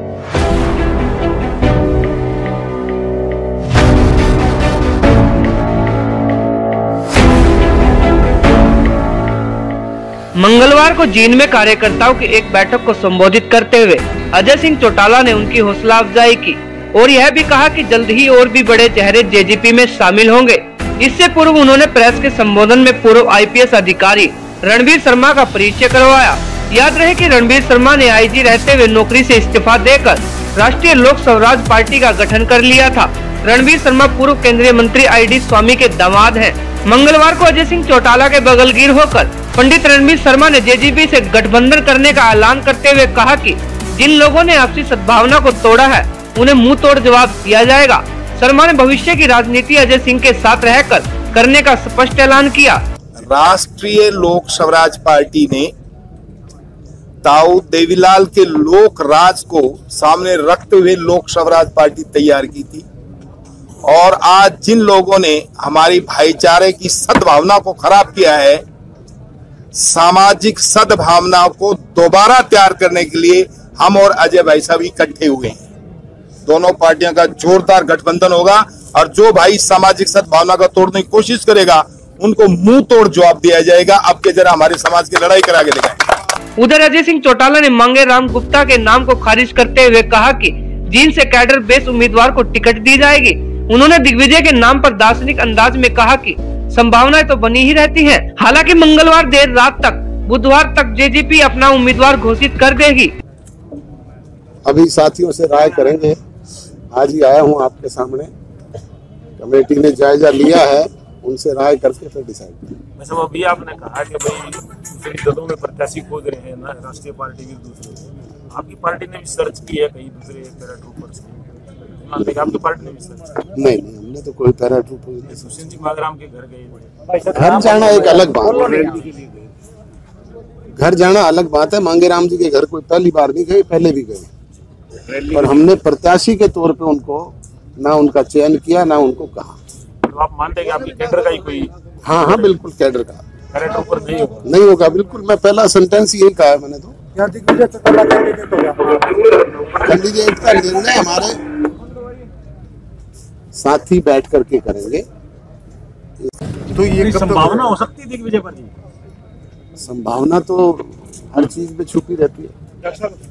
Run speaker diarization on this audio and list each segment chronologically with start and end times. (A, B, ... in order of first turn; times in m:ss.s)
0:10.4-0:52.8 A
0:53.3-0:55.7 B
0:57.2-1:02.8 B
1:03.8-1:08.6 B
1:09.7-1:15.6 B
1:16.4-1:26.0 B
1:26.6-1:43.1 A
1:44.6-1:46.2 C
1:46.9-1:48.3 C
1:49.4-1:52.8 C
1:53.0-2:03.4 D
2:03.5-2:05.4 C
2:05.3-2:09.5 D
2:07.3-2:08.8 C
2:10.8-2:14.3 C
2:15.1-2:15.5 D
2:15.3-2:19.6 C
2:20.0-2:21.7 D
2:22.0-2:23.2 C
2:23.5-2:24.4 D
2:24.4-2:27.0 C
2:28.6-2:29.0 D
2:29.6-2:31.4 C
2:33.5-2:35.0 C
2:36.7-2:38.7 D
2:39.8-2:42.5 C